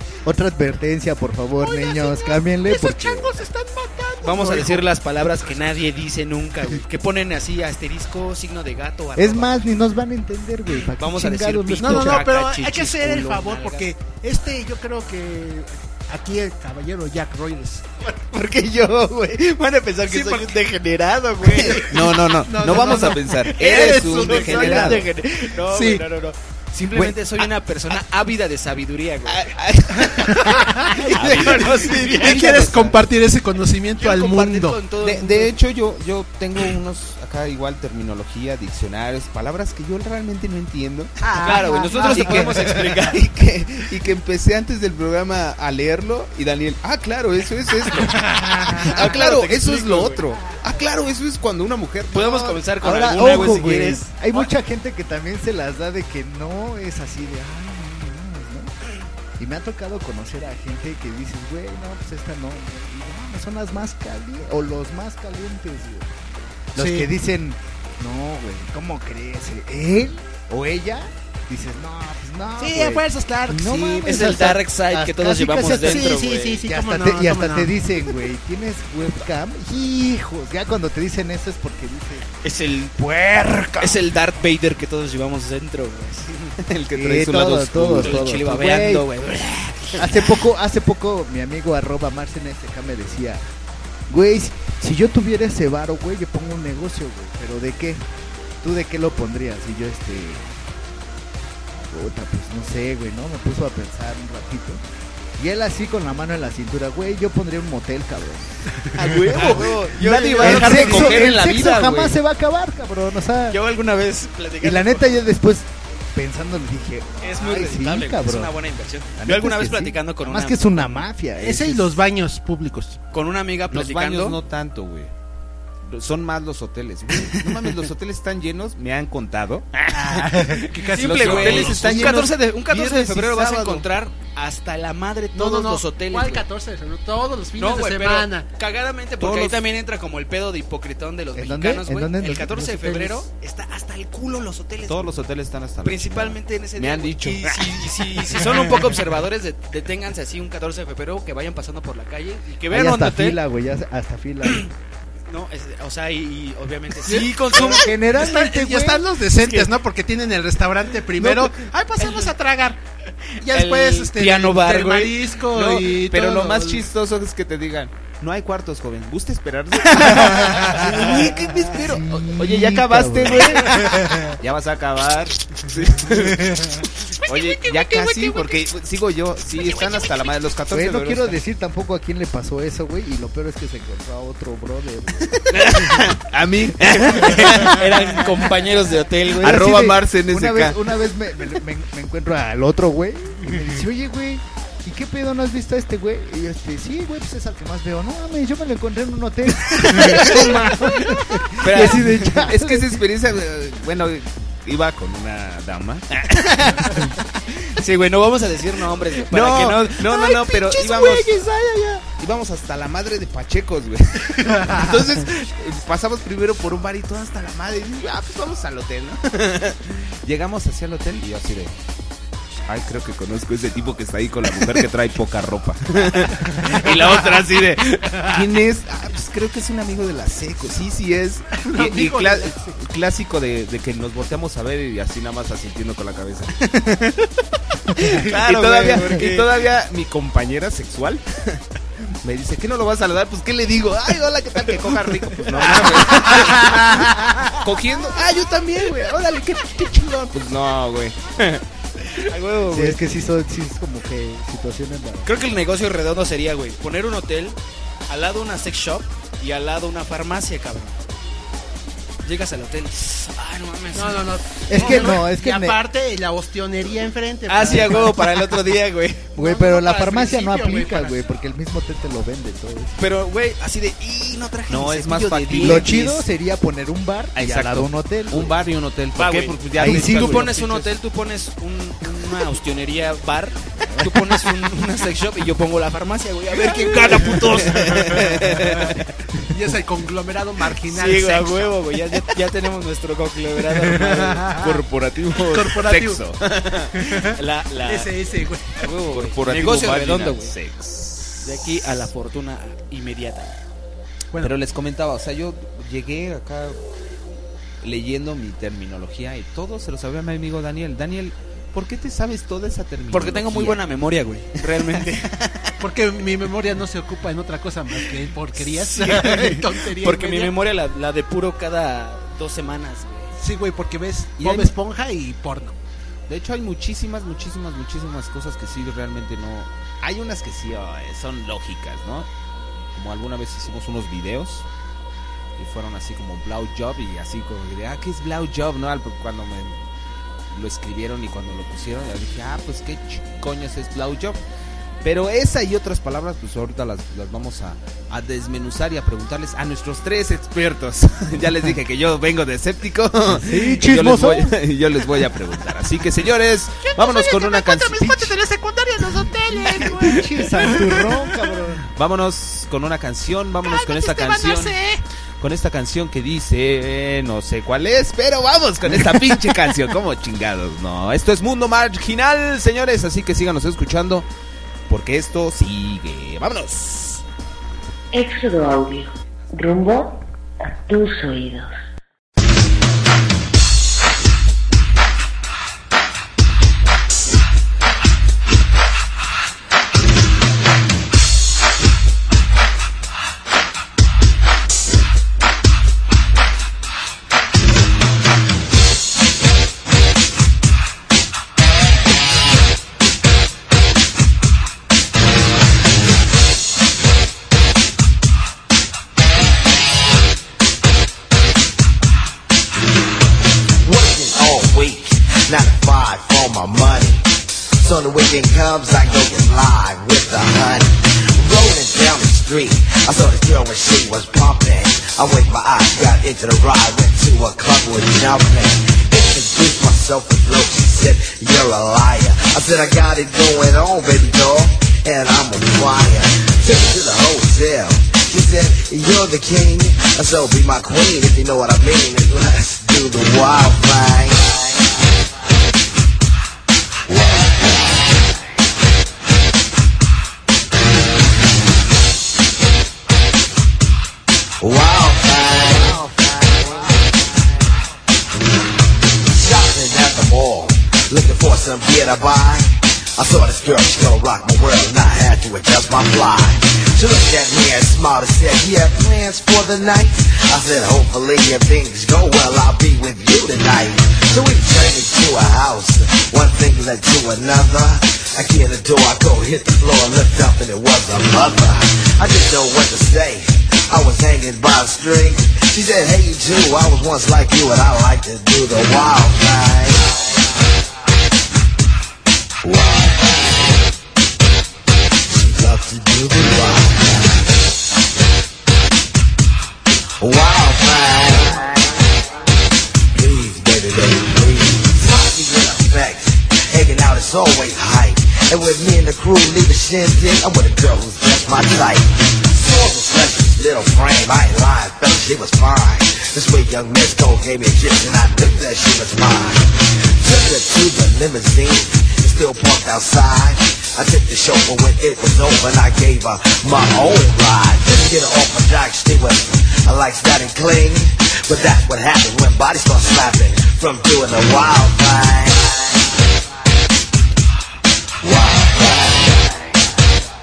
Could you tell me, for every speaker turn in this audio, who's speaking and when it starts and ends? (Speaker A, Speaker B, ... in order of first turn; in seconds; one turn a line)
Speaker A: 0.2-3.4
Speaker B: 1.6-4.9
Speaker C: 4.2-9.7
Speaker A: 9.2-12.3
Speaker C: 10.9-13.9
Speaker B: 11.8-17.9
Speaker C: 18.1-21.9
Speaker D: 21.5-25.1
Speaker B: 21.8-26.0
Speaker C: 23.6-29.5
Speaker D: 29.3-30.5
Speaker B: 30.1-34.8
Speaker C: 30.8-32.9
Speaker D: 31.1-33.0
Speaker C: 34.0-35.5
Speaker D: 35.0-52.6
Speaker B: 41.2-42.9
Speaker C: 41.4-43.2
Speaker B: 48.2-49.0
Speaker C: 48.9-50.2
Speaker C: 52.1-54.5
Speaker A: 52.8-58.7
Speaker A: 59.4-66.2
Speaker A: 66.7-82.3
Speaker B: 66.8-67.1
Speaker B: 72.6-74.3
Speaker C: 74.0-76.6
Speaker B: 75.8-77.8
Speaker C: 82.4-82.9
Speaker A: 82.9-84.0
Speaker C: 83.8-86.6
Speaker D: 86.6-88.3
Speaker A: 86.9-89.0
Speaker C: 88.0-90.3
Speaker A: 90.0-93.4
Speaker A: 94.1-98.0
Speaker A: 98.6-100.5
Speaker A: 101.9-104.8
Speaker A: 105.4-108.7
Speaker D: 108.9-111.3
Speaker C: 109.3-112.2
Speaker A: 109.3-113.6
Speaker C: 113.5-115.2
Speaker A: 114.6-118.6
Speaker C: 117.2-121.0
Speaker A: 119.2-122.0
Speaker B: 121.4-123.0
Speaker C: 123.1-124.4
Speaker D: 123.7-125.1
Speaker D: 125.8-133.9
Speaker B: 129.9-132.2
Speaker C: 130.9-136.4
Speaker B: 135.3-138.5
Speaker C: 137.6-145.1
Speaker D: 139.2-139.6
Speaker A: 141.3-143.1
Speaker D: 144.9-148.6
Speaker C: 145.8-153.4
Speaker A: 152.7-154.7
Speaker C: 155.3-157.9
Speaker B: 157.0-162.8
Speaker A: 157.5-159.1
Speaker C: 162.0-162.3
Speaker B: 163.4-166.8
Speaker C: 163.4-165.2
Speaker D: 165.5-181.4
Speaker A: 170.6-173.8
Speaker B: 177.3-178.6
Speaker A: 180.7-185.9
Speaker D: 185.4-188.2
Speaker C: 186.9-189.7
Speaker D: 189.3-190.8
Speaker A: 189.4-203.0
Speaker C: 200.0-200.3
Speaker D: 200.1-200.4
Speaker C: 201.6-202.4
Speaker D: 201.6-207.1
Speaker C: 206.4-207.0
Speaker C: 207.7-211.2
Speaker D: 209.2-211.4
Speaker A: 210.9-212.0
Speaker D: 212.2-221.7
Speaker D: 222.7-236.6
Speaker B: 231.6-232.8
Speaker C: 236.7-237.2
Speaker D: 237.9-241.6
Speaker C: 238.0-239.5
Speaker D: 242.2-251.6
Speaker C: 245.6-246.7
Speaker C: 252.2-253.0
Speaker A: 252.7-255.3
Speaker C: 255.2-257.6
Speaker C: 258.1-261.0
Speaker C: 262.2-264.2
Speaker B: 263.9-268.6
Speaker A: 264.7-265.8
Speaker C: 264.8-265.1
Speaker C: 267.5-269.3
Speaker A: 269.3-273.0
Speaker B: 269.4-271.2
Speaker C: 273.0-276.2
Speaker D: 274.7-276.1
Speaker A: 275.6-278.6
Speaker D: 277.4-280.9
Speaker C: 279.1-288.6
Speaker A: 279.7-280.5
Speaker D: 286.7-289.0
Speaker B: 289.5-291.7
Speaker C: 290.9-294.4
Speaker B: 293.9-294.8
Speaker D: 294.5-297.0
Speaker B: 295.4-296.2
Speaker B: 296.9-298.7
Speaker C: 297.3-298.1
Speaker C: 298.7-300.5
Speaker D: 299.1-301.5
Speaker C: 301.4-303.6
Speaker D: 304.4-306.8
Speaker D: 307.8-313.8
Speaker C: 313.1-315.6
Speaker B: 315.8-320.5
Speaker C: 318.6-323.3
Speaker B: 323.4-325.8
Speaker C: 324.4-324.7
Speaker D: 326.3-332.3
Speaker D: 332.9-334.6
Speaker D: 335.6-339.8
Speaker D: 340.5-344.4
Speaker D: 345.0-358.4
Speaker A: 353.3-354.6
Speaker B: 356.8-361.1
Speaker A: 359.4-361.8
Speaker D: 361.9-364.8
Speaker B: 363.6-365.0
Speaker D: 365.4-374.3
Speaker A: 368.9-369.4
Speaker D: 374.9-377.2
Speaker E: 378.1-381.7
Speaker F: 413.8-444.9
Speaker F: 447.1-448.1
Speaker F: 454.6-457.2
Speaker F: 459.2-490.3
Speaker F: 492.6-493.7
Speaker F: 495.3-497.6
Speaker F: 500.2-502.1
Speaker F: 503.1-536.1
Speaker F: 538.2-539.8